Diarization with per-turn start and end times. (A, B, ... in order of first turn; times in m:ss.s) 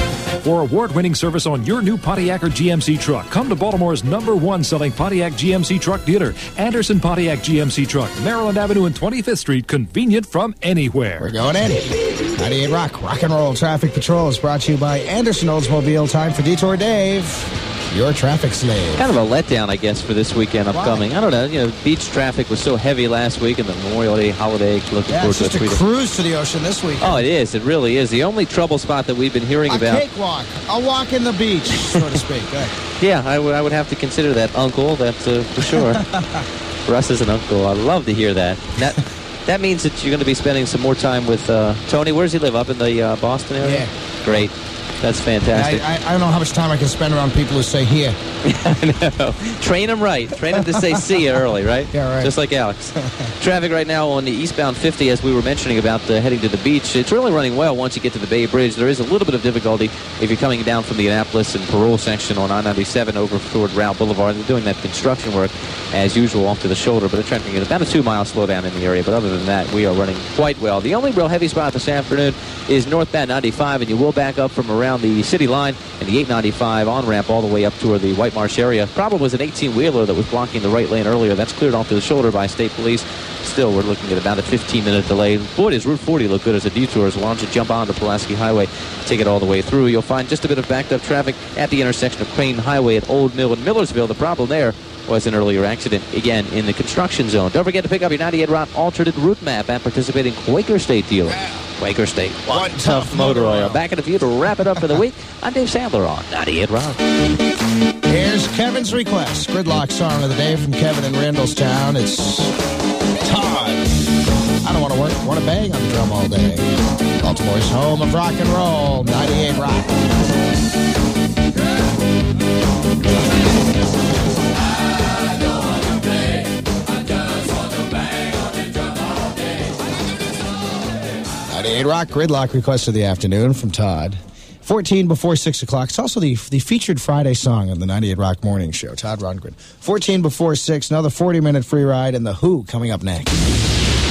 0:00.4-0:11.3 A
0:11.2-0:19.0 B
0:19.0-0:25.8 C
0:20.7-0:21.1 B
0:25.1-0:27.2 B
0:27.0-0:30.0 C
0:29.7-0:32.7 B
0:33.0-0:36.0 C
0:35.7-0:36.4 B
0:36.9-0:45.8 C
0:43.6-0:43.9 B
0:45.5-0:48.2 B
0:48.4-1:47.0 C
0:50.5-0:51.2 B
0:51.9-0:52.3 B
1:42.5-1:43.8 B
1:48.1-1:52.5 B
1:53.2-1:54.0 B
1:54.6-1:56.7 B
1:57.2-2:00.0 B
2:11.5-2:23.3 B